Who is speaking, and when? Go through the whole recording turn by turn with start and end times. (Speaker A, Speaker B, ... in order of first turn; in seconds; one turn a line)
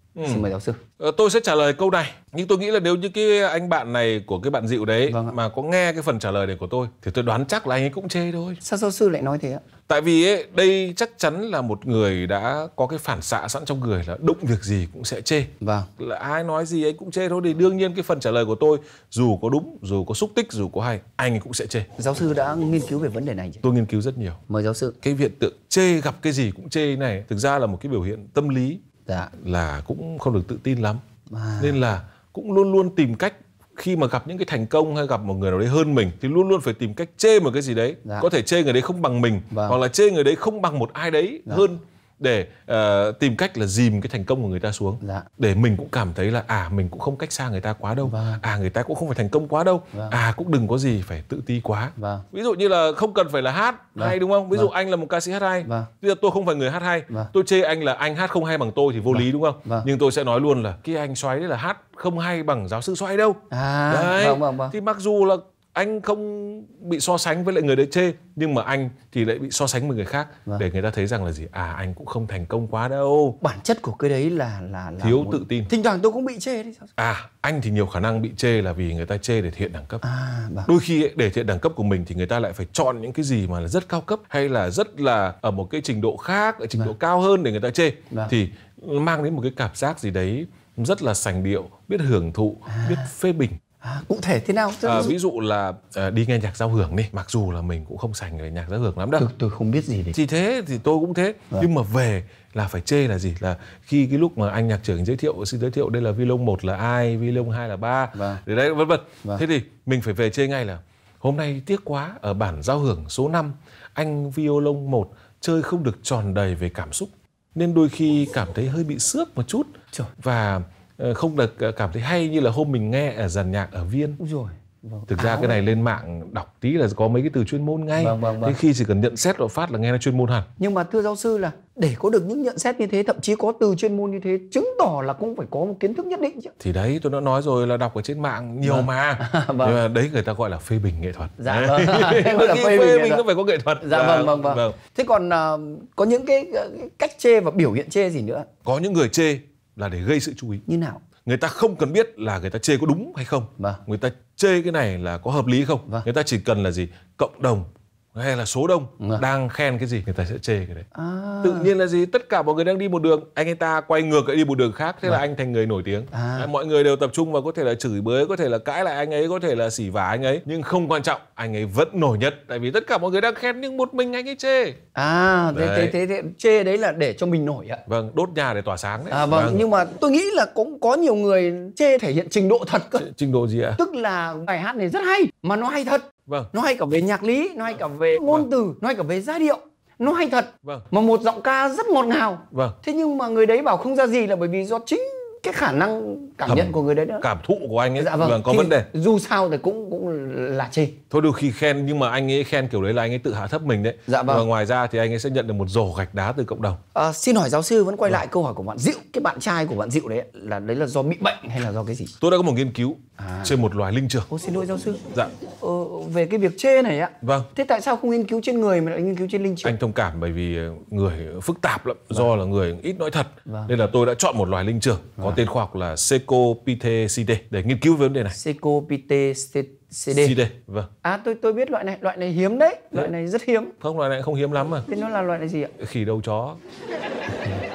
Speaker A: 0.1-0.5
Speaker B: 0.2-0.8
Speaker A: 1.0-8.6
Speaker B: 5.1-5.3
Speaker B: 8.6-9.6
Speaker A: 9.9-21.9
Speaker B: 15.6-15.9
Speaker B: 22.0-23.6
Speaker A: 23.6-24.4
Speaker B: 24.5-24.9
Speaker A: 25.0-28.8
Speaker B: 29.1-29.3
Speaker A: 29.4-31.0
Speaker B: 31.3-31.8
Speaker A: 31.6-73.4
Speaker B: 39.5-39.8
Speaker B: 45.0-45.3
Speaker B: 48.0-48.4
Speaker B: 52.0-52.2
Speaker B: 54.0-54.7
Speaker B: 55.6-55.9
Speaker B: 59.1-59.9
Speaker B: 63.5-64.7
Speaker B: 73.4-76.9
Speaker A: 75.0-75.7
Speaker A: 77.0-80.0
Speaker B: 80.0-80.7
Speaker A: 80.7-93.6
Speaker B: 92.7-93.1
Speaker B: 93.8-95.1
Speaker A: 94.8-99.2
Speaker B: 99.2-100.1
Speaker A: 100.1-124.2
Speaker B: 108.1-108.4
Speaker B: 124.2-125.6
Speaker A: 125.1-130.5
Speaker B: 128.0-128.6
Speaker B: 130.6-136.5
Speaker A: 136.6-144.8
Speaker B: 138.6-139.8
Speaker B: 141.4-143.2
Speaker B: 143.8-148.5
Speaker A: 148.6-150.6
Speaker B: 150.7-151.0
Speaker A: 151.2-160.8
Speaker B: 160.9-161.7
Speaker A: 161.4-174.8
Speaker B: 166.1-166.5
Speaker B: 174.9-177.8
Speaker A: 175.5-175.9
Speaker A: 177.9-179.7
Speaker B: 179.1-183.1
Speaker A: 182.9-183.8
Speaker B: 183.8-197.2
Speaker A: 196.4-198.9
Speaker B: 197.9-201.0
Speaker A: 201.1-206.8
Speaker B: 204.1-204.4
Speaker B: 206.9-212.1
Speaker A: 212.2-214.3
Speaker B: 213.2-213.5
Speaker B: 214.3-219.7
Speaker A: 217.2-217.5
Speaker A: 219.6-228.4
Speaker B: 223.4-223.7
Speaker B: 228.3-230.4
Speaker A: 230.1-230.9
Speaker B: 231.0-233.7
Speaker A: 233.8-234.9
Speaker B: 234.9-235.7
Speaker A: 235.8-236.6